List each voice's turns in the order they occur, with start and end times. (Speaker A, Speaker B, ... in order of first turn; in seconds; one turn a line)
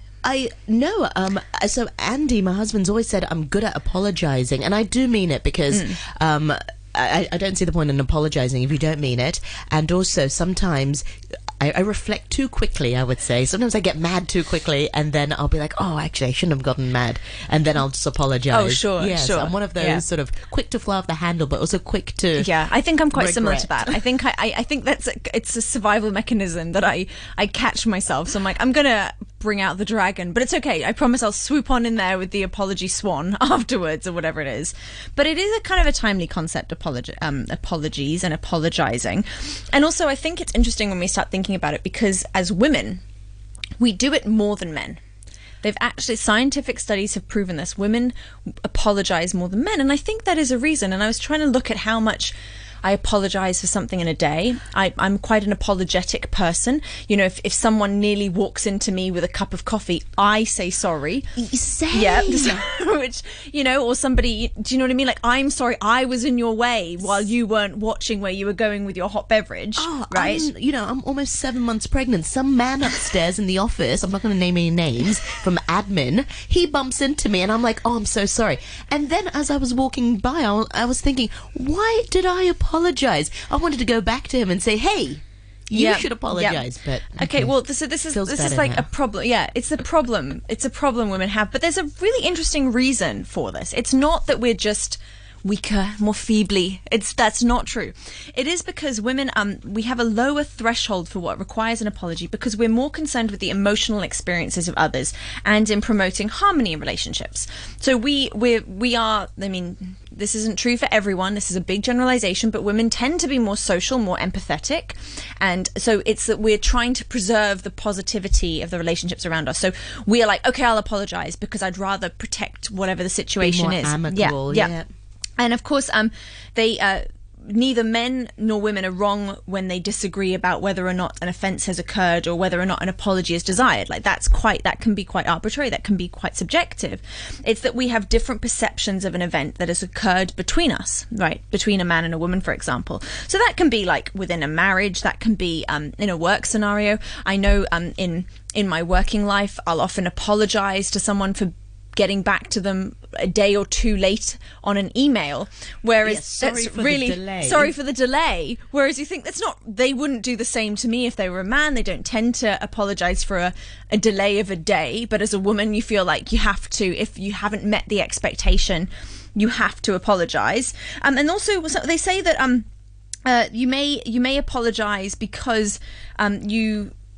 Speaker A: 0.2-11.0
Speaker B: 5.7-6.0
Speaker A: 11.6-22.5
Speaker B: 18.5-20.0
Speaker B: 22.4-43.0
Speaker A: 23.1-23.9
Speaker B: 43.8-45.0
Speaker B: 45.6-61.3
Speaker A: 61.4-62.6
Speaker B: 61.9-70.5
Speaker A: 69.8-87.5
Speaker B: 85.7-124.7
Speaker A: 88.1-88.9
Speaker A: 123.4-124.9
Speaker B: 125.4-172.7
Speaker A: 156.0-157.7
Speaker B: 173.2-176.9